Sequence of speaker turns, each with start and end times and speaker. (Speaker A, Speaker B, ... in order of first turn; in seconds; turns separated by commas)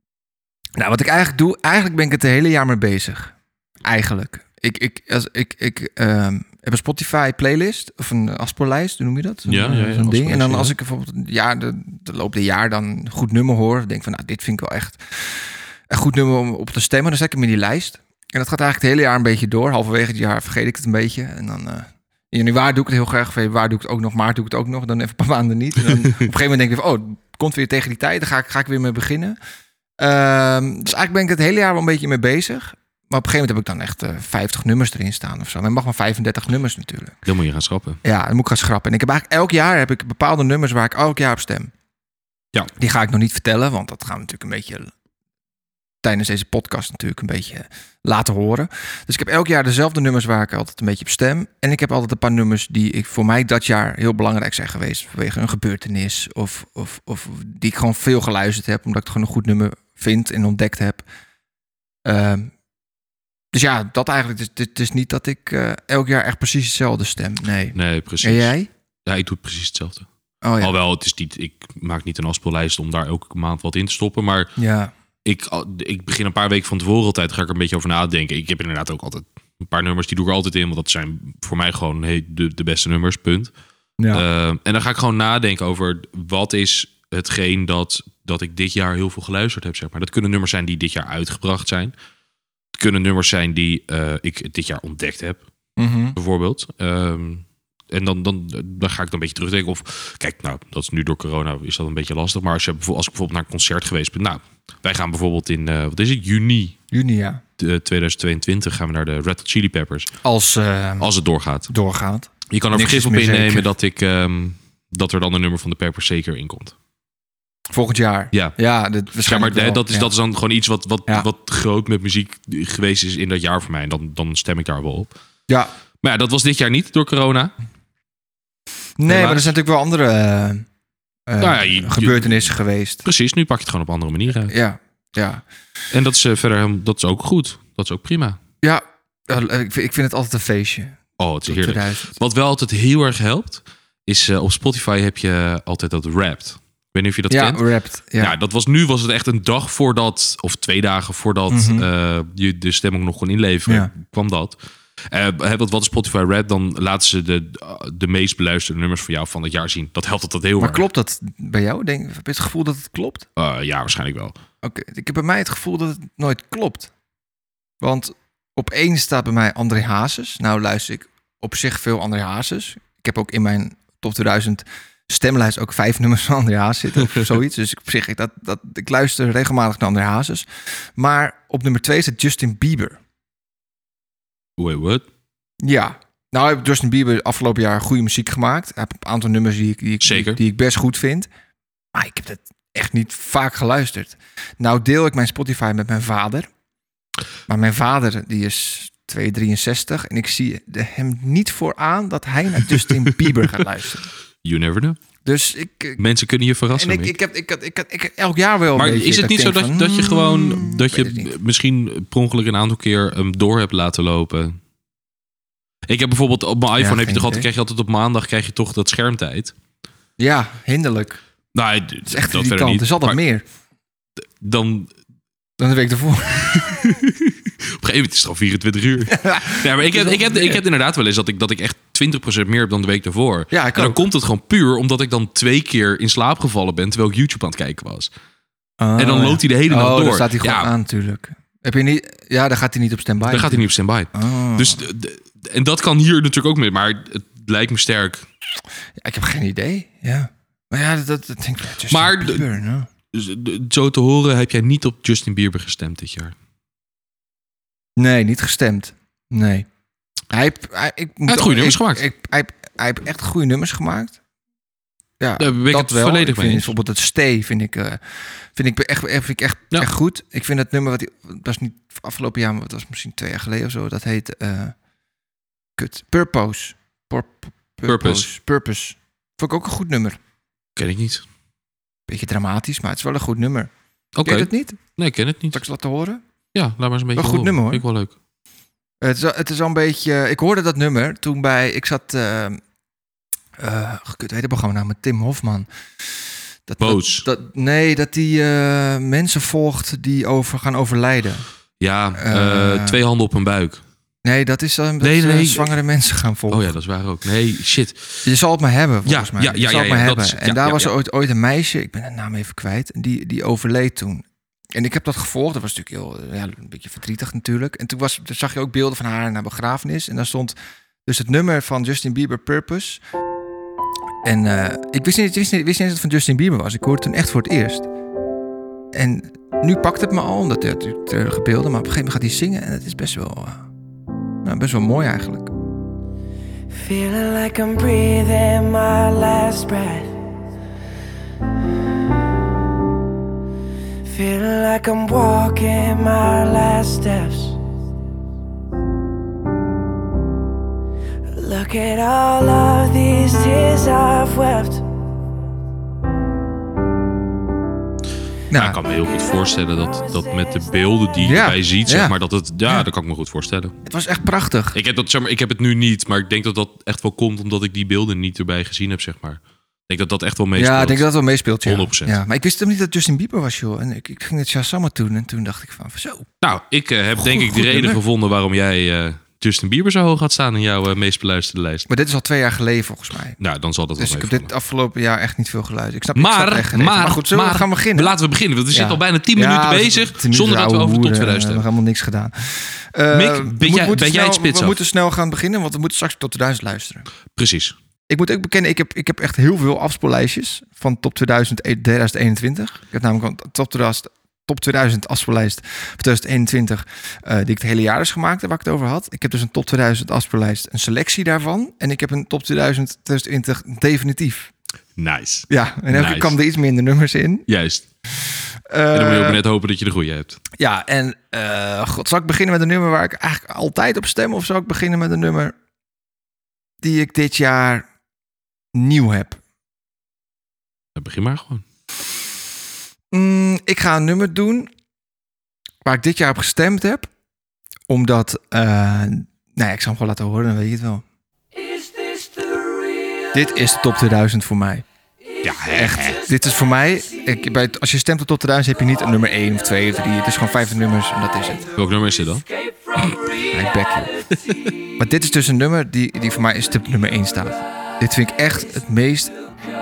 Speaker A: 0.8-29.4, Speaker B: 9.4-10.7, Speaker A: 30.0-37.2, Speaker B: 37.2-38.0, Speaker A: 38.0-41.7, Speaker A: 42.8-44.9, Speaker A: 46.0-61.0, Speaker A: 62.0-62.5, Speaker A: 63.5-68.7, Speaker B: 67.7-68.5, Speaker B: 69.0-70.1, Speaker A: 70.4-70.7, Speaker B: 70.6-74.5, Speaker A: 74.6-74.9, Speaker B: 75.2-83.5, Speaker A: 84.0-84.2, Speaker B: 84.1-91.9, Speaker B: 92.7-95.4, Speaker A: 95.8-96.2, Speaker B: 96.1-106.8, Speaker A: 106.9-107.4, Speaker B: 107.6-110.1, Speaker A: 110.2-111.1, Speaker B: 111.0-111.7, Speaker A: 111.7-113.7, Speaker B: 112.5-116.7, Speaker A: 117.7-120.1, Speaker B: 119.2-125.1, Speaker B: 126.0-127.5, Speaker A: 129.0-130.7, Speaker B: 129.1-129.5, Speaker A: 131.3-133.0, Speaker B: 131.4-132.5, Speaker B: 133.0-134.5, Speaker A: 134.3-135.4, Speaker B: 135.9-138.4, Speaker A: 138.6-142.1, Speaker B: 141.2-147.6, Speaker A: 147.3-148.3, Speaker B: 148.2-154.6, Speaker A: 151.5-151.9, Speaker B: 155.1-160.8, Speaker A: 160.6-163.3, Speaker B: 163.4-164.3, Speaker A: 164.6-166.9, Speaker A: 167.8-183.0, Speaker B: 184.6-185.1, Speaker A: 185.6-191.3, Speaker B: 190.0-190.4, Speaker A: 191.9-196.5, Speaker A: 197.5-204.1, Speaker B: 204.4-205.0, Speaker A: 205.2-206.0, Speaker B: 206.0-207.1, Speaker A: 206.7-211.3, Speaker B: 208.7-214.6, Speaker B: 215.9-219.5, Speaker A: 216.8-217.5, Speaker A: 220.2-221.2, Speaker B: 221.5-223.2, Speaker A: 222.1-223.4, Speaker B: 224.2-224.9, Speaker A: 225.6-226.6, Speaker B: 226.5-238.1, Speaker A: 229.1-230.6, Speaker A: 233.5-234.0, Speaker A: 238.8-244.8, Speaker B: 239.0-240.7, Speaker B: 243.2-248.2, Speaker A: 249.0-252.9, Speaker B: 251.9-252.5, Speaker B: 253.1-256.3, Speaker A: 258.0-259.7, Speaker A: 260.3-264.2, Speaker B: 261.3-262.1, Speaker A: 265.2-268.0, Speaker B: 265.4-266.7, Speaker A: 268.5-274.7, Speaker A: 275.8-280.2, Speaker B: 277.9-278.2, Speaker B: 280.8-281.2, Speaker A: 282.1-283.7, Speaker B: 284.1-285.6, Speaker A: 284.2-284.8, Speaker A: 285.5-286.2, Speaker B: 286.5-288.1, Speaker A: 287.1-287.8, Speaker A: 289.0-292.6, Speaker A: 293.6-296.1, Speaker A: 296.7-301.4, Speaker B: 296.8-297.2, Speaker B: 301.8-303.8, Speaker A: 302.1-303.0, Speaker A: 304.2-306.7, Speaker B: 305.0-305.7, Speaker B: 306.5-308.2, Speaker A: 308.2-323.0, Speaker B: 309.1-310.9, Speaker A: 324.2-327.9, Speaker A: 328.9-333.6, Speaker A: 334.4-335.5, Speaker C: 336.7-340.2, Speaker C: 344.1-347.6, Speaker C: 351.3-354.9, Speaker A: 358.5-358.8, Speaker B: 358.5-363.8, Speaker A: 361.2-362.1, Speaker A: 363.9-364.8, Speaker B: 364.7-371.1, Speaker A: 370.5-376.3, Speaker B: 371.6-372.2, Speaker B: 376.4-381.9, Speaker A: 377.2-378.0, Speaker A: 381.9-383.4, Speaker B: 383.4-384.5, Speaker A: 384.0-388.1, Speaker B: 386.1-391.6, Speaker A: 388.7-397.1, Speaker B: 393.1-394.8, Speaker B: 397.4-397.7, Speaker A: 398.1-414.5, Speaker B: 415.0-416.3, Speaker A: 415.5-417.5, Speaker B: 417.5-417.9, Speaker A: 418.7-419.4, Speaker B: 418.9-420.4, Speaker A: 420.6-425.5, Speaker A: 426.8-427.8, Speaker A: 428.7-429.4, Speaker B: 430.9-431.6, Speaker A: 433.1-434.7, Speaker A: 435.8-437.1, Speaker A: 437.9-441.0, Speaker A: 443.3-444.8, Speaker B: 445.4-446.2, Speaker A: 445.7-451.7, Speaker B: 451.8-452.4, Speaker A: 453.4-454.2, Speaker B: 454.4-454.7, Speaker A: 455.0-459.3